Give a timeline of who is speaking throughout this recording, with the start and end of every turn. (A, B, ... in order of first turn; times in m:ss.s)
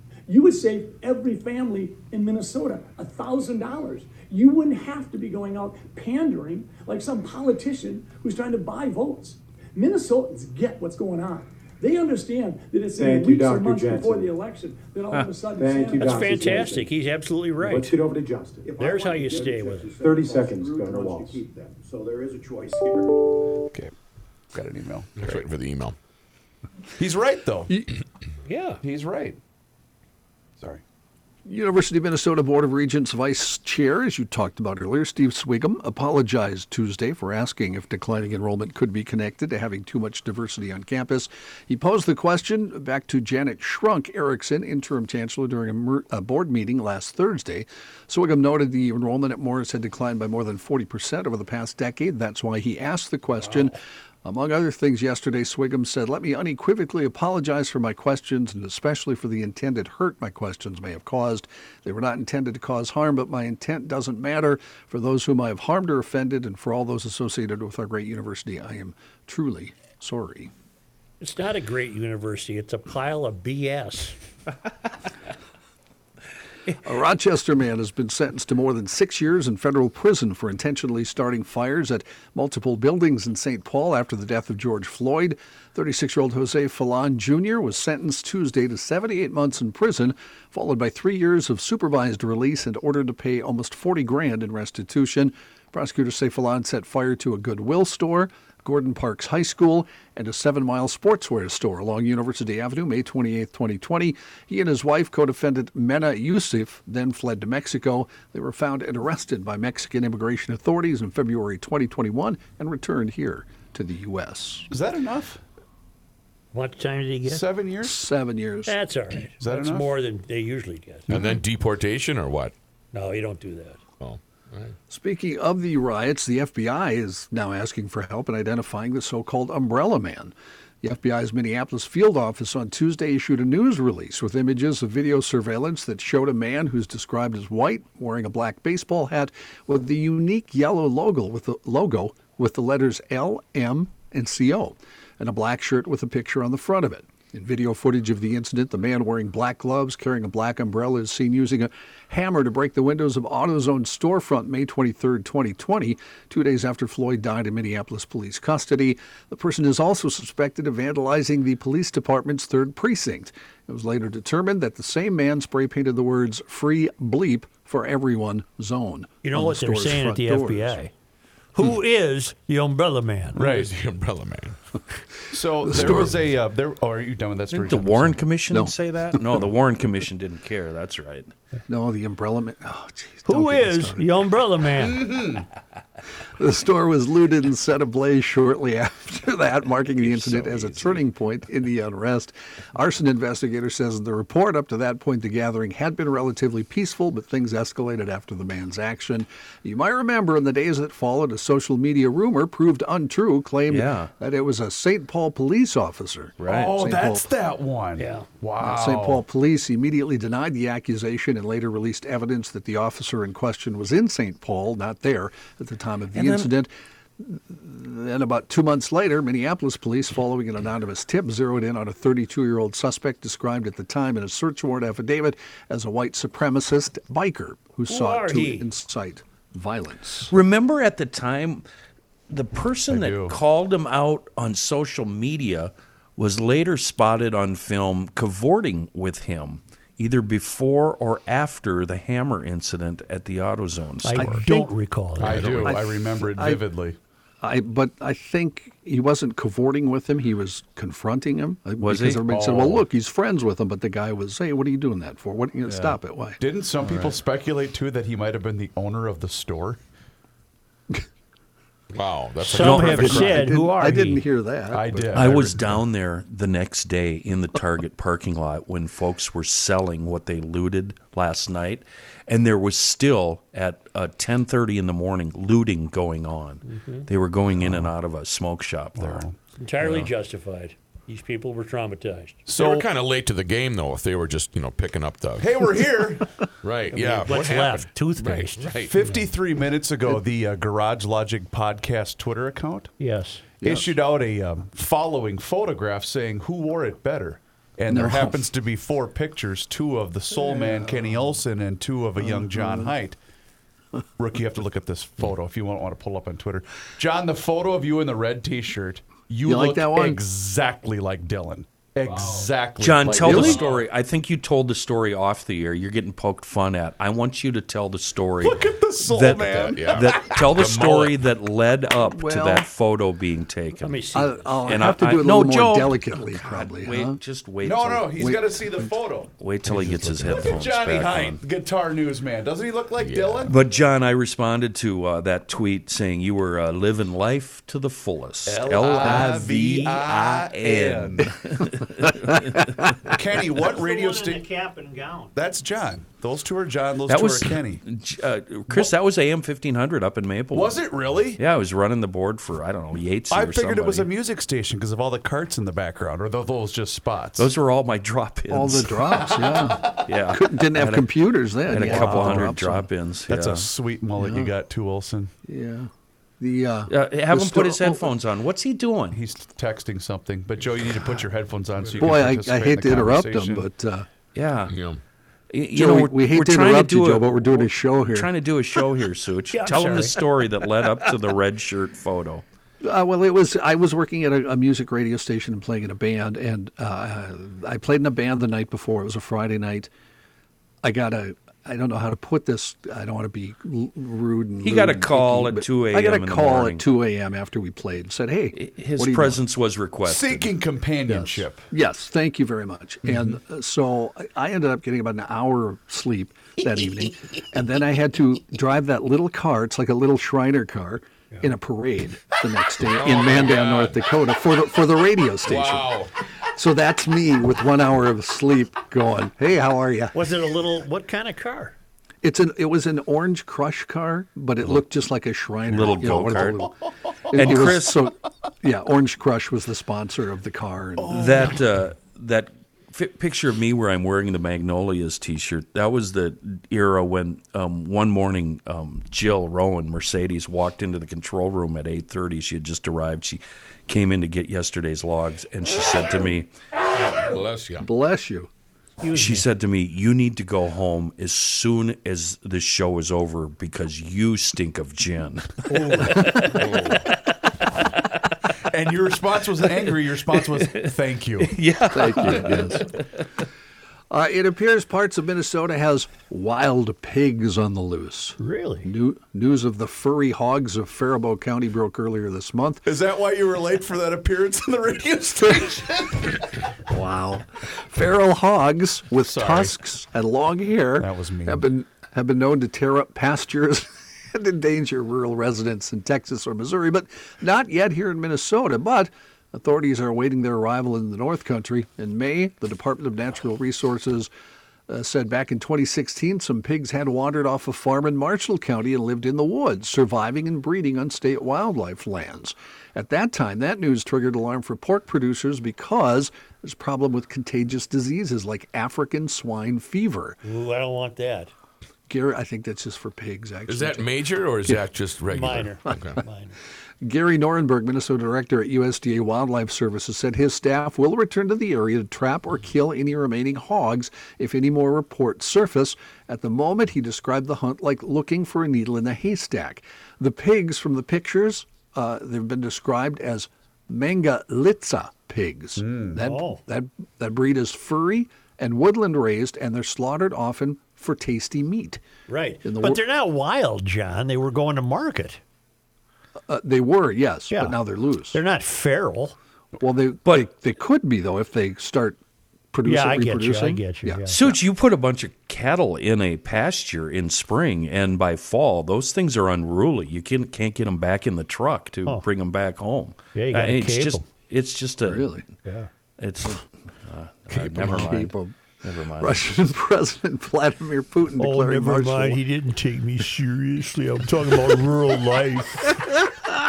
0:00.3-0:16.6 A
0:13.0-0:14.3 B
0:15.5-0:16.9 B
0:16.0-0:18.0 C
0:17.6-0:18.7 B
0:18.6-0:23.2 D
0:18.8-0:19.9 C
0:20.0-0:21.4 B
0:24.5-0:25.5 E
0:25.2-0:26.0 F
0:27.0-0:27.8 E
0:28.5-0:28.8 C
0:28.8-0:29.4 E
0:31.5-1:10.5 G
1:11.2-1:14.2 C
1:16.8-1:54.7 G
1:54.7-1:55.4 E
1:56.5-1:57.4 C
1:57.2-1:58.0 E
1:57.8-1:58.8 G
1:58.7-2:01.1 C
1:59.4-1:59.9 E
2:01.1-2:02.5 F
2:02.9-2:03.8 C
2:04.0-2:04.8 F
2:04.9-2:50.8 G
2:49.2-2:50.9 C
2:51.6-2:53.4 C
2:53.4-2:53.7 E
2:53.4-2:54.8 F
2:55.3-2:58.2 E
2:55.6-2:56.2 G
2:55.8-2:56.0 F
2:57.5-3:01.3 H
2:58.5-2:59.5 G
3:01.7-3:04.3 G
3:03.3-3:05.0 C
3:04.8-3:05.5 E
3:06.4-3:27.3 G
3:10.0-3:11.0 H
3:23.7-3:24.1 H
3:26.4-3:26.7 H
3:26.5-3:29.2 E
3:28.0-3:28.3 C
3:28.6-3:50.3 G
3:36.1-3:36.5 H
3:47.9-3:48.7 C
3:50.3-3:51.6 H
3:52.3-4:04.4 H
3:52.9-3:53.4 E
4:04.0-4:05.4 C
4:04.2-4:04.7 G
4:05.2-4:07.0 E
4:05.2-4:05.8 F
4:05.6-4:06.6 G
4:07.4-4:16.4 G
4:11.8-4:12.2 H
4:12.3-4:12.8 E
4:15.7-4:16.0 H
4:16.4-4:19.8 E
4:16.8-4:17.1 H
4:21.9-4:23.3 F
4:22.4-4:24.2 C
4:22.6-4:23.4 H
4:22.8-4:25.4 G
4:24.7-4:25.8 E
4:25.1-4:39.2 H
4:36.7-4:37.0 C
4:37.6-4:37.9 E
4:39.0-4:39.4 E
4:39.6-4:42.5 C
4:42.5-4:42.9 E
4:42.5-4:45.5 F
4:45.4-4:46.3 E
4:46.6-4:48.9 F
4:46.9-4:49.3 C
4:48.9-4:52.9 E
4:53.0-4:53.4 C
4:53.6-4:53.9 G
4:53.6-5:03.2 E
4:57.9-4:58.4 G
5:00.5-5:01.0 G
5:02.2-5:02.9 G
5:04.2-5:13.7 E
5:09.4-5:10.2 G
5:12.8-5:24.1 H
5:13.0-5:13.6 G
5:18.4-5:20.5 E
5:19.6-5:21.2 F
5:22.0-5:22.7 G
5:23.8-5:24.6 C
5:24.1-5:27.2 G
5:24.6-5:28.4 H
5:27.6-5:33.6 E
5:28.2-5:28.4 G
5:29.4-5:31.4 H
5:33.0-5:33.5 F
5:33.5-5:42.8 H
5:38.5-5:41.3 E
5:43.0-5:44.5 E
5:43.6-5:45.4 C
5:45.4-5:47.8 E
5:47.1-5:50.8 H
5:50.5-5:51.4 E
5:51.4-5:54.1 H
5:53.3-5:57.5 E
5:57.4-6:01.1 H
5:58.5-6:02.9 G
6:01.7-6:03.7 H
6:02.0-6:02.2 E
6:03.3-6:05.3 E
6:04.2-6:04.5 G
6:05.5-6:08.1 G
6:06.9-6:09.2 H
6:09.1-6:13.7 E
6:12.0-6:14.1 G
6:14.4-6:14.7 H
6:14.7-6:15.0 F
6:15.5-6:22.4 H
6:15.7-6:18.3 G
6:19.5-6:20.1 C
6:22.8-6:29.9 G
6:30.8-6:39.4 G
6:34.6-6:36.8 H
6:38.6-6:40.5 H
6:40.0-6:41.6 E
6:41.1-6:56.0 G
6:52.9-6:54.0 F
6:55.4-6:56.1 F
6:56.5-7:00.2 G
7:00.1-7:01.8 C
7:02.2-7:06.8 G
7:05.7-7:06.7 H
7:07.3-7:11.5 G
7:07.3-7:08.1 H
7:11.0-7:11.6 E
7:11.1-7:26.5 H
7:26.9-7:27.9 F
7:27.8-7:28.5 G
7:29.0-7:29.5 C
7:29.1-7:37.2 H
7:35.7-7:36.3 C
7:36.5-7:37.0 F
7:38.7-7:42.6 E
7:40.4-7:43.0 H
7:41.9-7:42.9 G
7:44.1-7:52.8 G
7:48.4-7:48.9 C
7:52.9-7:56.5 E
7:56.9-8:14.3 G
7:59.2-7:59.8 E
8:01.0-8:01.6 E
8:14.9-8:30.4 G
8:30.4-8:31.5 C
8:32.1-8:34.1 G
8:33.7-8:36.2 F
8:35.3-8:36.6 C
8:35.9-8:36.2 G
8:37.0-9:02.0 G
8:55.8-8:56.2 E
8:56.2-8:56.6 C
9:02.3-9:05.4 C
9:02.6-9:03.0 G
9:06.5-9:08.4 G
9:07.5-9:07.8 C
9:08.3-9:09.4 C
9:09.8-9:12.2 G
9:12.7-9:14.6 G
9:12.8-9:14.4 C
9:14.3-9:25.3 H
9:23.4-9:24.2 C
9:25.0-9:25.5 G
9:26.2-9:29.4 H
9:27.5-9:32.4 G
9:31.4-9:36.0 C